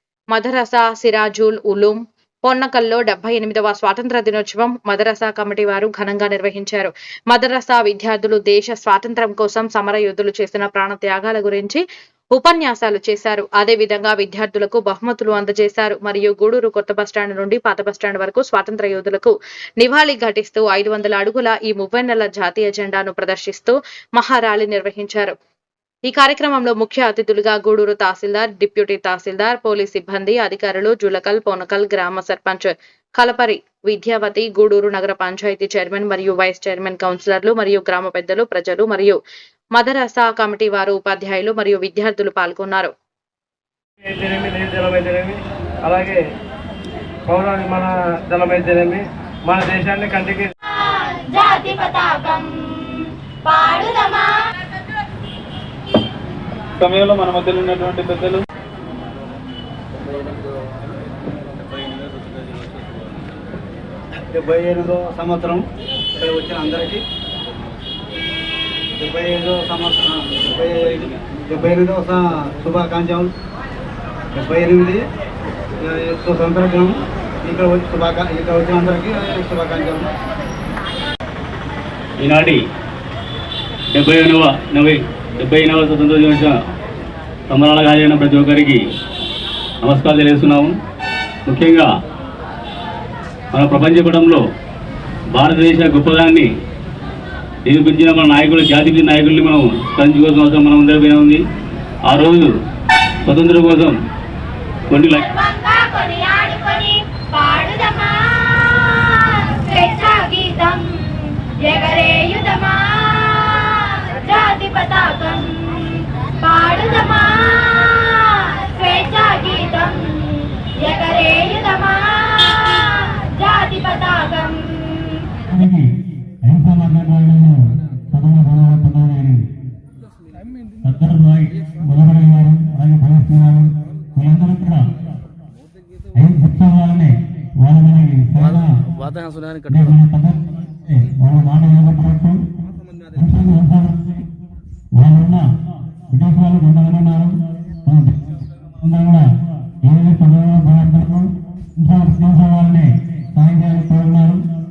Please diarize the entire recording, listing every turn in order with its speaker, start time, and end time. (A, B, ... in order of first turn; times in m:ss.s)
0:00.3-0:25.3 A
0:26.0-0:39.2 A
0:39.7-0:42.9 A
0:44.0-0:46.2 B
0:47.3-0:50.5 B
0:50.8-0:54.4 C
0:56.8-0:58.4 D
1:04.3-1:05.6 E
1:06.2-1:07.0 E
1:09.0-1:13.3 E
1:14.3-1:15.0 E
1:15.8-1:20.0 E
1:22.2-1:22.6 D
1:23.9-1:26.5 D
1:27.5-1:28.8 D
1:29.8-1:30.7 D
1:31.4-1:31.9 D
1:33.5-1:34.4 D
1:35.3-1:36.5 D
1:37.6-1:41.4 D
1:42.0-1:42.5 D
1:43.2-1:44.0 D
1:44.9-1:45.2 D
1:45.2-2:05.3 C
2:05.5-2:05.9 F
2:06.4-2:09.5 F
2:10.8-2:14.8 F
2:16.1-2:18.8 F
2:19.2-2:19.6 D
2:19.7-2:22.4 F
2:23.1-2:24.2 F
2:24.9-2:25.5 F
2:26.1-2:29.2 F
2:29.8-2:34.4 F